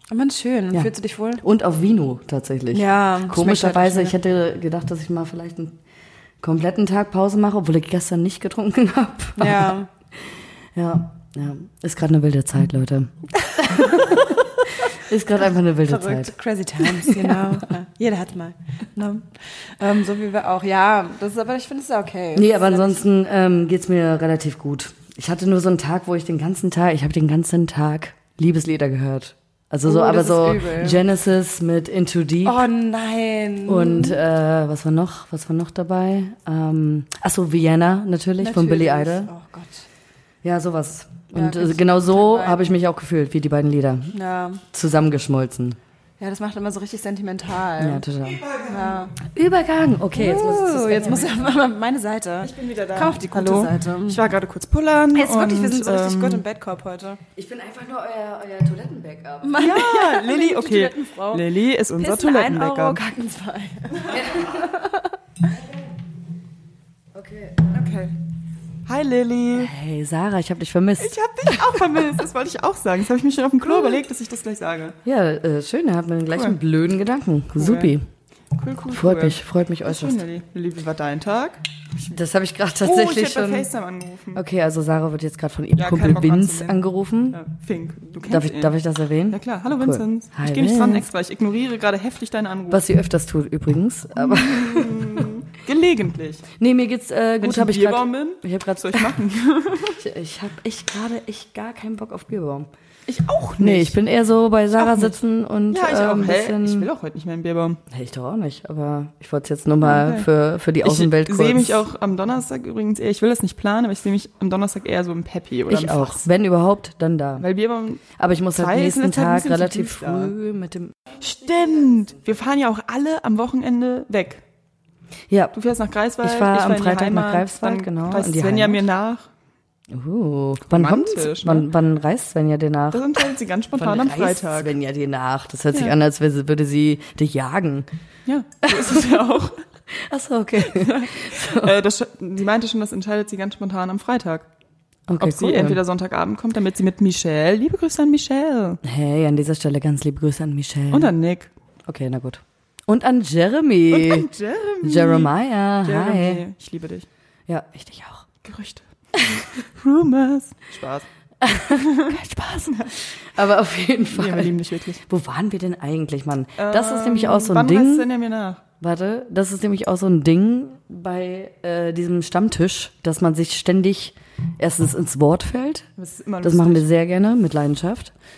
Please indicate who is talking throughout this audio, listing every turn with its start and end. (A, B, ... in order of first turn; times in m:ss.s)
0:00.1-0:01.4 A
0:00.7-0:05.8 B
0:02.7-0:04.1 A
0:06.4-0:09.8 B
0:09.4-0:09.9 A
0:10.8-0:17.6 B
0:13.4-0:13.9 A
0:15.9-0:23.0 A
0:22.4-0:32.7 B
0:29.8-0:31.0 A
0:32.4-0:34.2 A
0:33.7-0:39.3 B
0:38.4-0:39.9 A
0:40.4-0:44.1 B
0:41.3-0:42.6 A
0:44.1-0:44.6 A
0:44.7-0:45.8 B
0:46.2-0:48.0 A
0:47.8-0:48.4 B
0:48.2-0:49.1 C
0:48.6-0:49.1 A
0:49.2-0:51.6 B
0:50.1-0:54.2 A
0:52.4-0:56.4 C
0:55.1-0:57.2 A
0:57.4-0:59.7 B
0:59.4-1:05.2 A
0:59.6-1:03.0 C
1:04.1-1:04.7 B
1:07.1-1:08.0 B
1:07.7-1:08.1 C
1:08.9-1:09.8 C
1:09.6-1:11.9 B
1:11.0-1:15.0 C
1:15.0-1:18.0 B
1:16.3-1:16.6 C
1:17.6-1:17.9 C
1:18.5-1:21.6 C
1:18.9-1:20.2 B
1:22.1-1:23.7 B
1:22.8-1:24.4 C
1:24.4-1:27.4 B
1:25.8-1:26.8 C
1:27.3-1:28.8 C
1:28.3-1:31.1 B
1:29.3-1:32.8 C
1:32.7-1:35.3 B
1:34.2-1:36.4 C
1:36.6-1:39.2 B
1:37.4-1:40.0 C
1:40.0-1:42.7 B
1:43.1-1:44.0 C
1:43.6-1:46.9 B
1:44.7-1:45.1 C
1:45.7-1:47.8 C
1:47.9-1:51.8 B
1:49.8-1:50.3 C
1:50.8-1:56.2 C
1:55.7-1:57.5 B
1:57.4-1:58.0 C
1:58.2-2:01.0 B
1:58.6-2:00.3 C
2:01.2-2:04.4 C
2:05.3-2:05.5 B
2:05.5-2:09.3 C
2:06.2-2:08.8 B
2:09.9-2:13.2 B
2:10.7-2:11.7 C
2:12.9-2:14.7 C
2:13.7-2:17.9 B
2:18.3-2:19.6 C
2:18.6-2:19.3 B
2:19.9-2:21.7 B
2:20.6-2:24.5 C
2:25.1-2:25.8 B
2:25.2-2:28.8 C
2:28.8-2:31.1 B
2:30.9-2:31.5 C
2:31.9-2:34.3 B
2:33.9-2:35.3 C
2:34.8-2:36.4 B
2:35.8-2:37.1 C
2:37.5-2:38.3 B
2:38.4-2:41.1 C
2:41.4-2:42.2 B
2:41.8-2:43.0 C
2:43.2-2:48.1 B
2:44.1-2:45.0 C
2:46.6-2:48.6 C
2:48.8-2:55.9 B
2:56.0-2:56.9 C
2:56.4-2:58.1 B